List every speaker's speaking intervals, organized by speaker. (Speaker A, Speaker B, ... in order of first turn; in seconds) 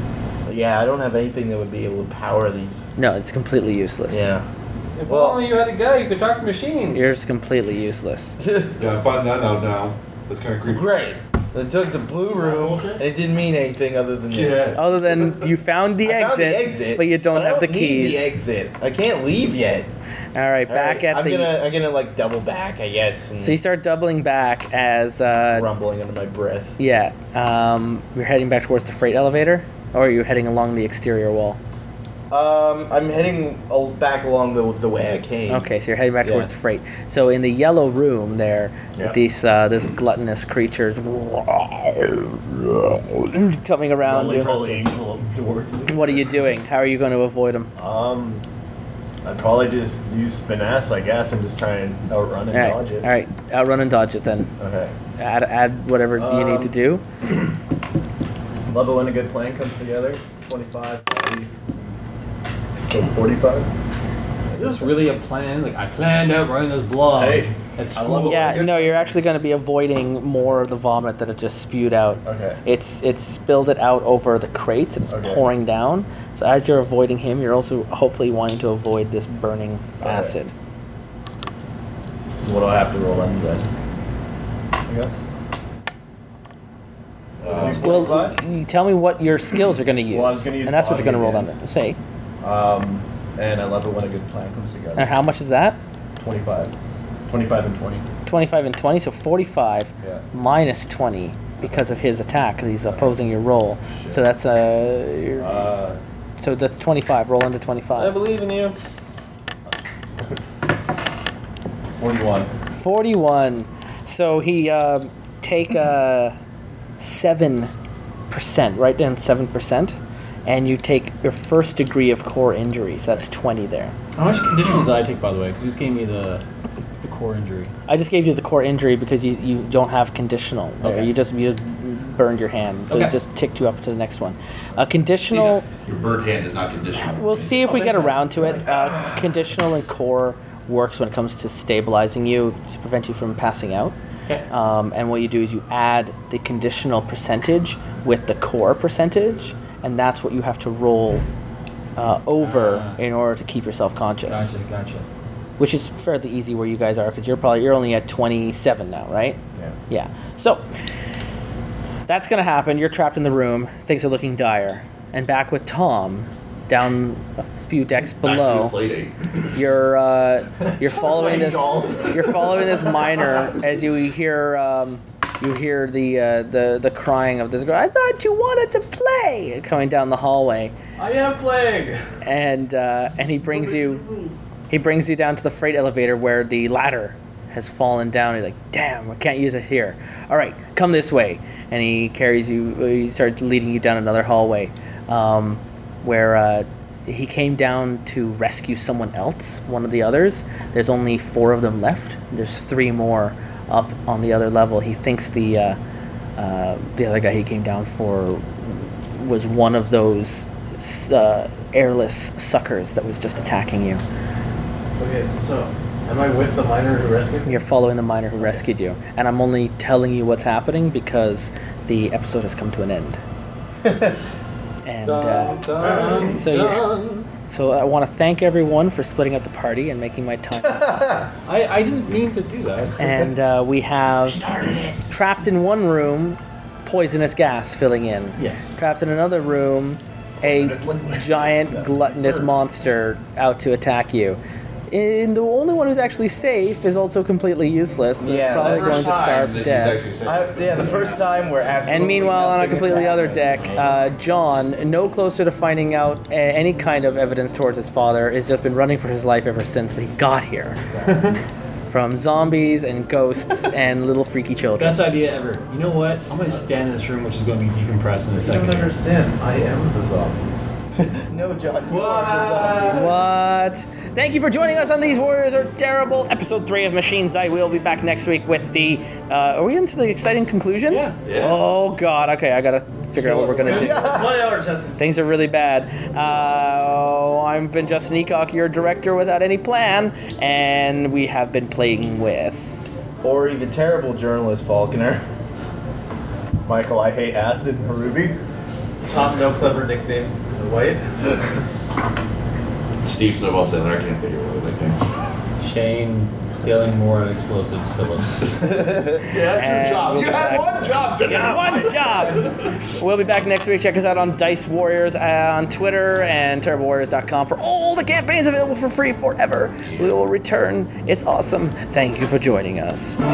Speaker A: 0.5-2.9, 4.1-4.5, 5.1-5.5, 8.4-8.7, 10.6-14.8, 16.0-19.9, 20.7-23.6, 25.5-26.8, 32.3-35.7, 36.2-36.5, 223.8-224.1, 230.7-231.2, 248.2-249.1, 250.2-253.8, 271.0-273.1, 283.6-284.5, 293.2-295.2
Speaker B: 3.0-4.3, 6.9-8.3, 14.8-18.3, 20.4-21.6, 23.4-25.7, 26.8-31.6, 35.5-45.0, 45.9-47.7, 52.5-54.5, 55.2-57.0, 68.2-80.5, 87.6-92.0, 95.0-95.8, 98.3-105.7, 106.4-108.2, 112.7-116.3, 117.0-117.7, 118.3-124.0, 127.9-135.6, 137.0-143.9, 144.5-151.2, 151.9-154.5, 155.6-160.6, 162.1-168.8, 169.5-180.7, 182.2-184.1, 184.7-205.8, 206.4-214.0, 217.4-223.2, 224.8-231.3, 233.0-244.4, 244.9-250.0, 251.9-260.9, 261.9-265.0, 272.9-284.1, 285.0-292.7, 309.5-323.2
Speaker C: 5.0-7.1, 12.3-13.1, 64.5-68.6, 108.0-108.8, 124.2-126.4, 127.0-127.7, 130.8-131.1, 132.9-133.2, 137.6-138.5, 152.4-153.0, 154.3-155.1, 225.1-227.3, 231.4-233.3, 238.4-238.8, 261.1-261.4, 264.8-268.9, 280.9-281.2, 283.2-284.1, 305.6-308.6
Speaker D: 8.8-10.9, 14.3-15.3, 87.4-87.8, 135.3-137.8, 168.2-169.1, 248.5-251.2, 272.2-272.9, 281.3-281.6, 303.0-305.0, 309.1-312.7, 319.9-320.1
Speaker E: 39.0-39.2, 44.0-46.3, 47.8-48.4, 49.2-53.1, 54.6-55.0, 56.1-56.7, 58.7-61.7, 62.8-63.7, 64.5-65.1, 67.1-69.2, 72.2-72.6, 75.1-75.5, 80.0-80.4, 82.4-83.7, 84.9-85.2, 87.4-88.4, 90.1-91.5, 92.4-95.2, 96.2-96.7, 97.3-98.1, 101.6-101.9, 103.9-104.2, 105.4-106.0, 112.0-112.5, 170.6-173.1, 240.4-242.7, 296.7-298.4
Speaker F: 171.1-171.8, 181.0-182.0, 183.6-184.3, 215.0-217.6, 253.1-253.8, 268.3-270.7, 271.9-273.1, 283.7-285.0, 299.0-301.2